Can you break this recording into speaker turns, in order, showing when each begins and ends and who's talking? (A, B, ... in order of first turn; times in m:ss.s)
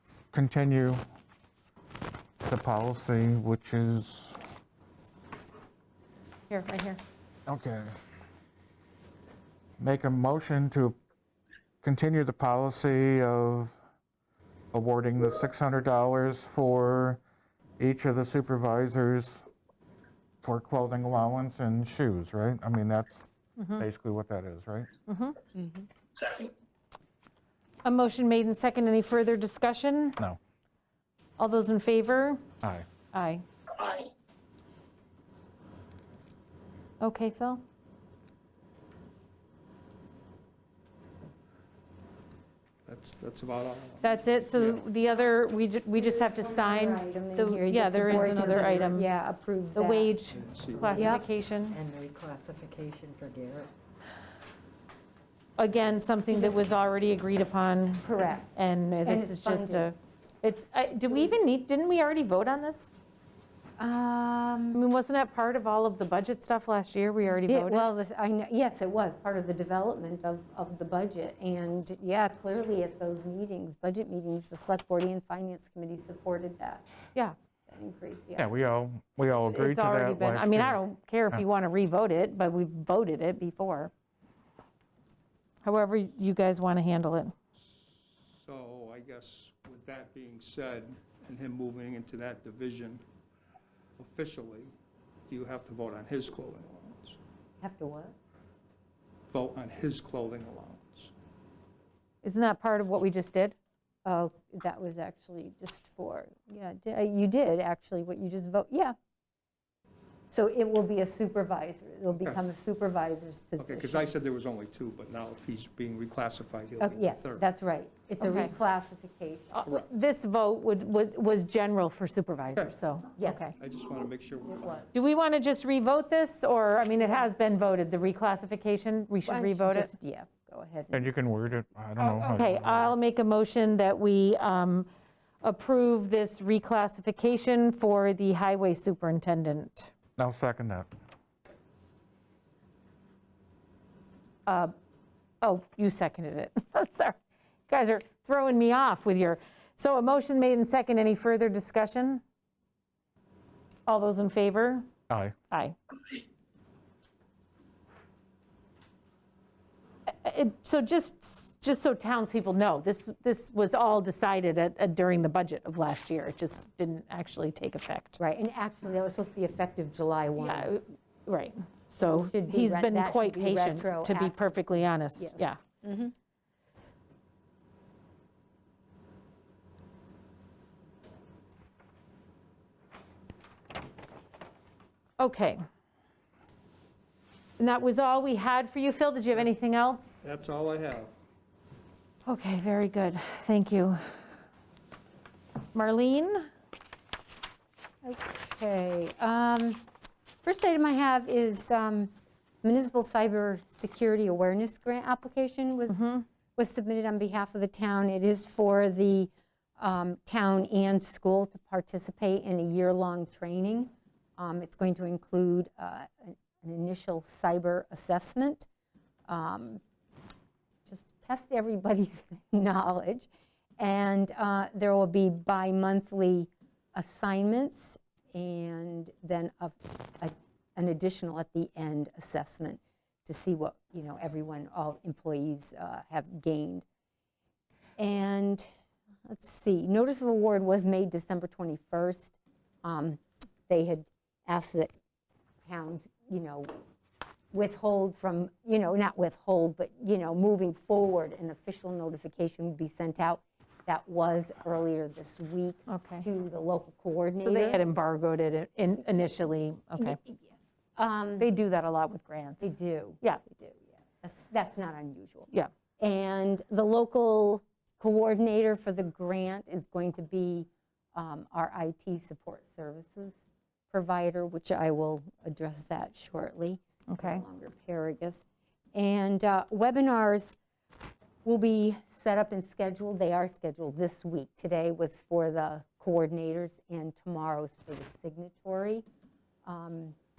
0:00.3-0:01.0 A
0:02.4-0:04.4 A
0:06.5-0:07.0 B
0:07.5-0:07.9 A
0:09.8-0:11.0 A
0:11.8-0:13.8 A
0:14.7-0:17.2 A
0:17.8-0:19.5 A
0:20.4-0:23.2 A
0:23.6-0:23.8 B
0:23.8-0:24.9 A
0:25.1-0:25.4 B
0:25.6-0:25.9 C
0:27.8-0:30.2 B
0:31.4-0:32.4 B
0:32.6-0:32.9 A
0:33.1-0:33.4 B
0:37.0-0:37.6 B
0:42.9-0:44.8 D
0:44.0-0:49.1 B
0:46.0-0:50.2 C
0:49.8-0:51.8 B
0:50.3-0:51.1 E
0:50.4-0:51.2 D
0:50.9-0:51.3 C
0:51.7-0:53.7 E
0:55.6-1:02.9 B
0:56.3-0:56.7 C
0:58.0-0:58.5 C
0:59.0-0:59.9 C
1:03.8-1:04.8 C
1:04.7-1:07.8 B
1:07.5-1:16.8 C
1:17.7-1:18.5 C
1:18.4-1:20.8 A
1:19.5-1:23.9 B
1:25.6-1:27.4 B
1:27.6-1:33.0 D
1:34.0-1:34.7 D
1:35.3-1:37.2 D
1:37.6-1:38.1 C
1:39.3-1:41.1 D
1:42.2-1:43.6 B
1:44.0-1:49.0 C
1:50.3-1:54.1 C
1:52.1-1:52.4 D
1:53.6-1:57.5 D
1:56.8-1:59.5 C
1:58.2-1:58.6 B
1:59.5-2:03.5 B
2:03.2-2:03.5 C
2:03.6-2:04.8 D
2:04.4-2:04.9 C
2:04.9-2:09.9 B
2:09.3-2:11.0 C
2:10.9-2:13.0 A
2:12.0-2:14.9 B
2:15.4-2:19.9 B
2:20.2-2:20.9 A
2:24.5-2:24.7 B
2:25.4-2:32.2 B
2:33.9-2:34.9 B
2:35.1-2:35.4 A
2:35.5-2:35.8 B
2:40.1-2:48.2 B
2:48.2-2:50.7 C
2:50.4-2:55.6 B
2:52.1-2:54.5 C
2:55.2-2:56.1 C
3:05.2-3:05.6 B
3:07.6-3:10.3 B
3:10.2-3:11.1 D
3:12.2-3:14.0 B
3:15.7-3:16.5 B
3:18.0-3:19.8 C
3:20.4-3:38.7 C
3:25.9-3:26.2 B
3:39.3-3:39.8 C
3:40.9-3:56.8 C
3:58.0-3:58.7 C
3:59.3-4:04.9 C
4:05.7-4:06.8 C
4:07.5-4:17.8 C
4:15.9-4:16.2 B
4:17.4-4:20.2 B
4:20.0-4:20.4 C
4:21.0-4:21.5 C
4:21.4-4:23.4 B
4:22.6-4:33.4 C
4:33.9-4:38.4 C
4:37.1-4:37.4 B
4:38.9-4:40.5 C
4:41.4-4:49.0 C
4:49.6-4:50.2 C